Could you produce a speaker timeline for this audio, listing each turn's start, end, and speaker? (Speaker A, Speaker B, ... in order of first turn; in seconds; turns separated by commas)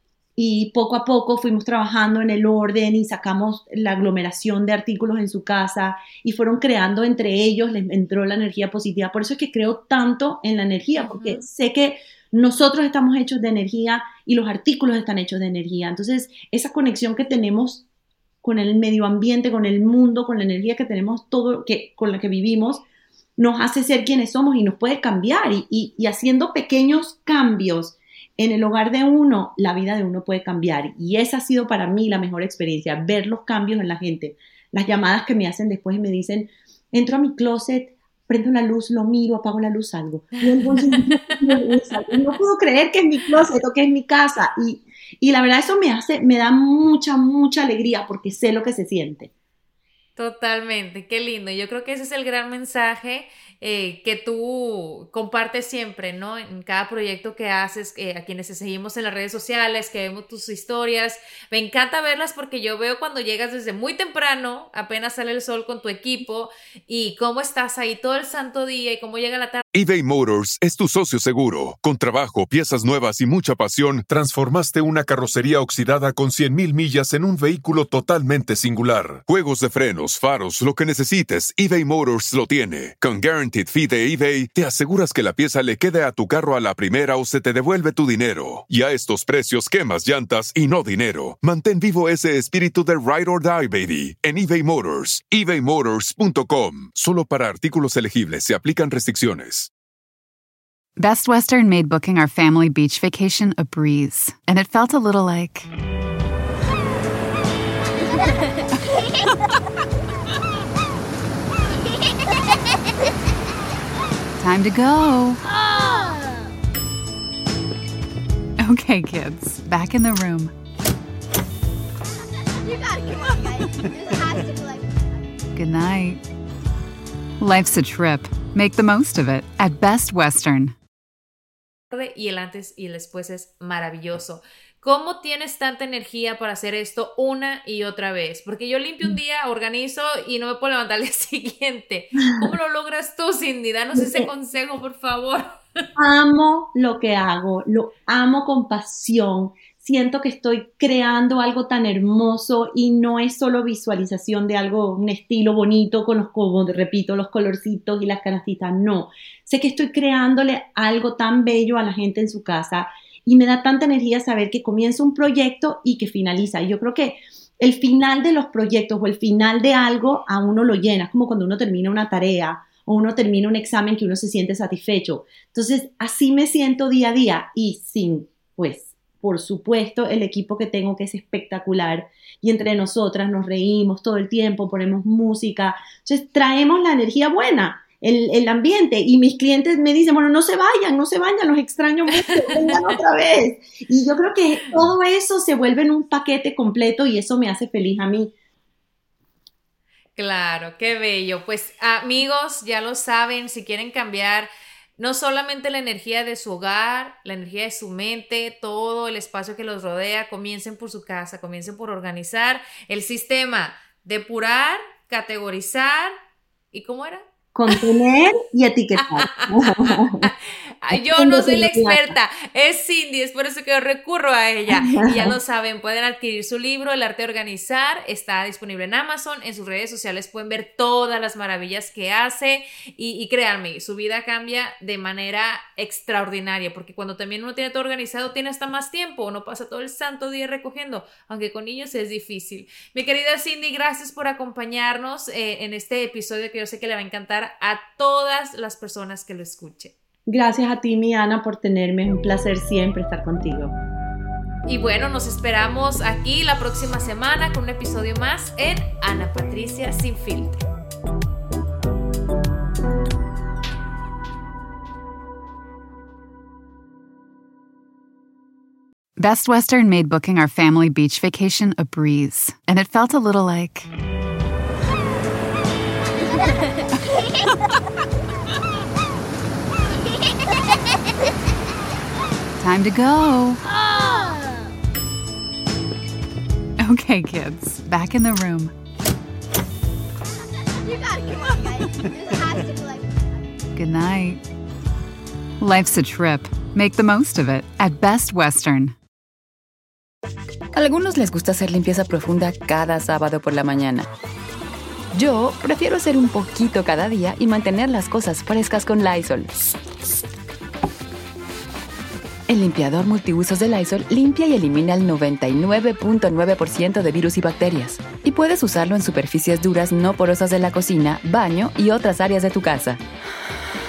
Speaker A: 0.4-17.9, Speaker B: 11.0-11.5, Speaker A: 18.4-22.9, Speaker A: 23.4-49.3, Speaker B: 40.4-41.4, Speaker B: 50.2-69.6, Speaker C: 69.7-99.7, Speaker D: 101.0-105.7, Speaker D: 114.4-115.4, Speaker E: 115.9-116.1, Speaker D: 118.6-120.5, Speaker E: 122.5-125.2, Speaker D: 125.5-126.2, Speaker D: 127.4-130.8, Speaker B: 131.9-145.6, Speaker A: 143.9-144.3, Speaker A: 146.0-198.3, Speaker B: 192.3-192.9, Speaker B: 200.2-216.1, Speaker B: 216.7-218.0, Speaker A: 217.6-220.3, Speaker B: 219.0-249.9, Speaker A: 220.9-222.2, Speaker A: 224.7-225.4, Speaker A: 250.3-253.8, Speaker B: 254.7-260.6, Speaker D: 269.2-273.9, Speaker D: 282.6-283.6, Speaker D: 286.8-288.7, Speaker E: 290.6-293.4, Speaker D: 293.8-294.4, Speaker D: 295.6-299.0, Speaker F: 300.7-304.1, Speaker F: 305.1-309.6, Speaker F: 312.5-323.0